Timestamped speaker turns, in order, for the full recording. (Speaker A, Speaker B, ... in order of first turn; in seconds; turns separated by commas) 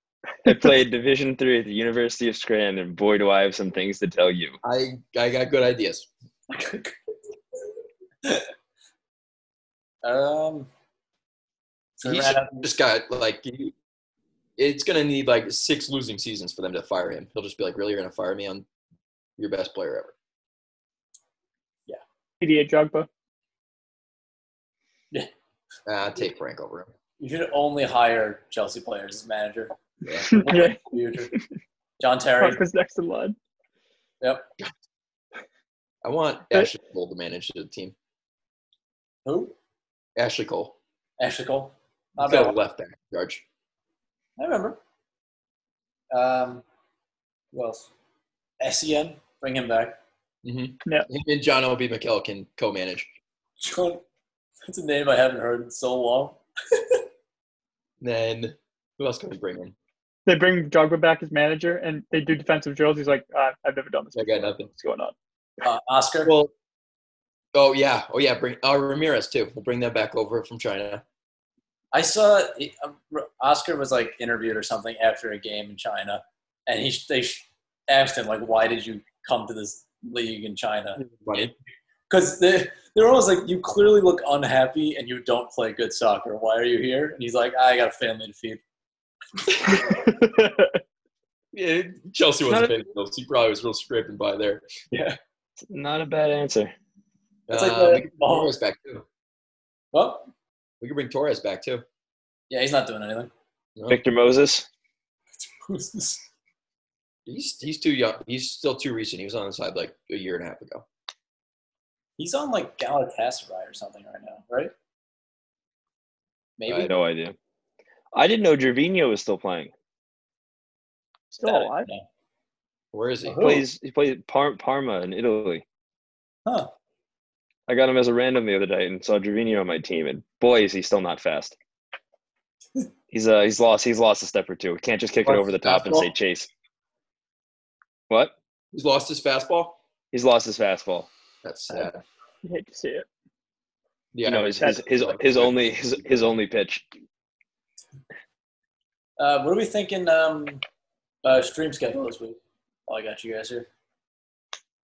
Speaker A: 0.4-4.6, Speaker B: 4.6-6.1, Speaker C: 6.5-6.9, Speaker C: 10.0-10.7, Speaker C: 12.0-12.7, Speaker B: 12.0-13.7, Speaker B: 14.6-18.6, Speaker B: 19.4-20.1, Speaker D: 22.4-23.1, Speaker B: 25.9-26.9, Speaker C: 27.2-29.7, Speaker B: 30.0-30.4, Speaker D: 30.3-30.8, Speaker C: 30.3-31.3, Speaker C: 32.0-32.6, Speaker D: 32.4-33.4, Speaker C: 34.2-34.5, Speaker B: 36.0-37.9, Speaker C: 39.2-39.5, Speaker B: 40.1-40.8, Speaker C: 41.2-42.5, Speaker B: 42.2-43.4, Speaker C: 44.4-44.8, Speaker C: 46.1-46.6, Speaker C: 47.5-47.9, Speaker C: 48.6-50.0, Speaker B: 50.4-53.1, Speaker C: 53.6-54.0, Speaker C: 54.6-57.0, Speaker B: 58.0-59.7, Speaker D: 60.2-65.1, Speaker B: 64.1-64.7, Speaker C: 65.6-66.3, Speaker B: 66.2-66.5, Speaker B: 67.5-71.0, Speaker C: 71.9-81.0, Speaker B: 81.0-81.5, Speaker C: 82.1-88.6, Speaker D: 89.7-90.8, Speaker B: 91.5-94.7, Speaker C: 94.9-95.2, Speaker A: 95.6-96.7, Speaker B: 97.5-99.0, Speaker C: 97.5-98.5, Speaker C: 99.9-100.3, Speaker B: 100.8-101.8, Speaker C: 102.5-103.3, Speaker A: 103.9-104.7, Speaker C: 105.4-106.2, Speaker B: 107.3-110.8, Speaker C: 112.2-114.7, Speaker C: 116.6-116.9, Speaker A: 116.7-117.3, Speaker A: 118.1-119.7, Speaker D: 121.3-121.9, Speaker C: 121.4-122.0, Speaker B: 122.9-123.5, Speaker C: 123.2-123.6, Speaker A: 123.4-125.6, Speaker A: 127.7-131.6, Speaker A: 133.1-136.5, Speaker C: 135.3-136.1, Speaker B: 138.7-139.8, Speaker A: 140.1-141.1, Speaker B: 141.4-142.0, Speaker D: 142.4-143.1, Speaker B: 144.1-145.6, Speaker A: 144.2-146.8, Speaker C: 149.2-150.6, Speaker C: 151.2-152.3, Speaker C: 152.9-153.7